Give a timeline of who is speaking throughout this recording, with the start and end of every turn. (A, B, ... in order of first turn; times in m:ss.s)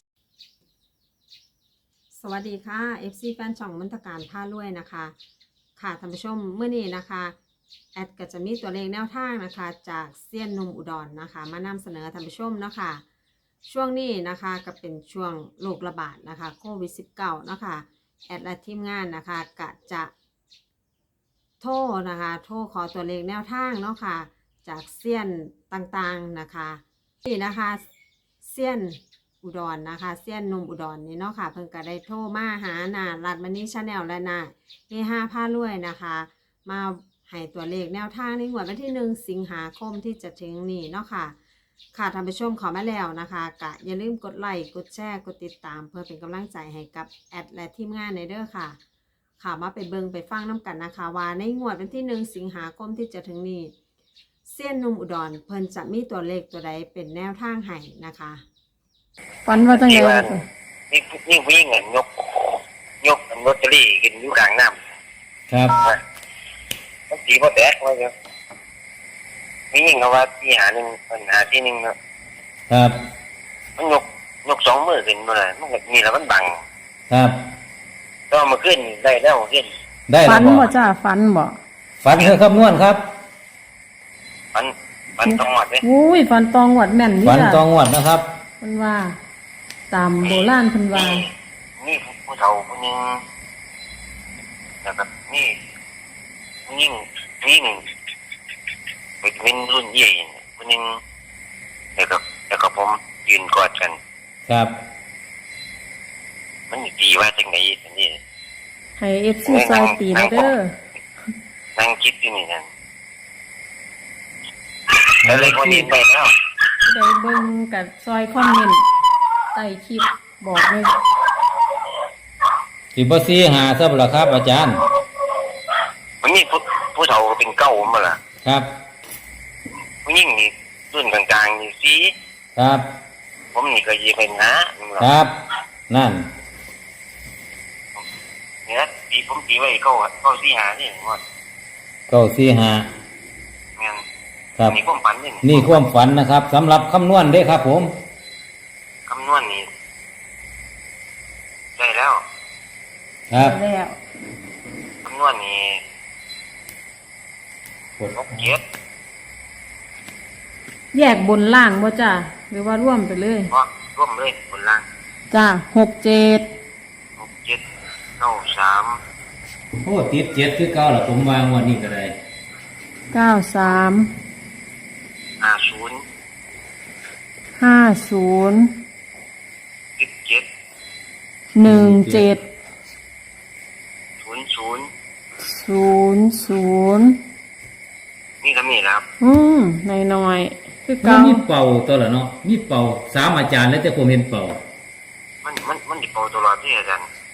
0:02.1-0:05.2 A
0:05.8-0:07.4 A
0:08.0-0:13.0 A
0:13.6-0:20.1 A
0:21.6-0:27.8 A
0:28.4-0:41.4 A
0:41.9-0:48.8 A
0:49.4-0:53.7 A
0:54.5-0:58.4 A
0:59.4-1:00.5 B
0:59.7-1:00.4 C
1:00.9-1:04.8 C
1:05.5-1:05.8 D
1:07.1-1:08.1 C
1:09.7-1:12.0 C
1:12.7-1:13.0 D
1:13.8-1:16.6 C
1:17.1-1:17.4 D
1:18.3-1:19.7 C
1:20.1-1:20.7 D
1:20.2-1:21.6 B
1:22.0-1:23.1 D
1:24.5-1:25.8 C
1:25.2-1:27.6 B
1:27.2-1:28.2 D
1:28.6-1:29.2 B
1:29.9-1:31.3 B
1:30.2-1:33.2 C
1:34.8-1:35.6 C
1:36.7-1:37.8 C
1:39.2-1:41.0 C
1:42.0-1:44.0 C
1:44.5-1:44.7 D
1:46.7-1:48.2 C
1:49.0-1:50.8 B
1:49.5-1:50.6 C
1:51.8-1:52.7 C
1:54.9-1:56.3 C
1:55.2-1:55.9 D
1:56.8-1:58.8 B
1:59.5-2:01.0 B
2:02.9-2:04.8 D
2:06.2-2:08.2 C
2:08.4-2:08.7 D
2:10.0-2:12.1 C
2:12.6-2:12.8 D
2:13.5-2:15.1 C
2:15.0-2:15.4 D
2:15.9-2:16.3 D
2:18.7-2:21.2 C
2:22.1-2:22.9 D
2:23.8-2:24.0 C
2:24.7-2:25.8 C
2:25.4-2:27.9 D
2:29.1-2:29.7 C
2:31.8-2:32.2 C
2:33.3-2:33.6 D
2:33.4-2:34.0 B
2:35.0-2:35.8 C
2:38.0-2:38.5 D
2:38.1-2:38.6 C
2:40.9-2:43.5 B
2:43.5-2:44.9 C
2:45.3-2:46.5 B
2:47.2-2:47.6 C
2:48.2-2:49.0 C
2:49.8-2:52.2 D
2:53.1-2:54.1 B
2:55.4-2:56.0 C
2:57.6-2:58.7 B
3:00.0-3:00.5 C
3:01.5-3:02.4 B
3:01.6-3:02.3 D
3:04.2-3:04.9 C
3:05.4-3:07.2 B
3:08.4-3:09.1 C
3:09.2-3:11.4 B
3:11.0-3:14.6 D
3:15.4-3:17.1 C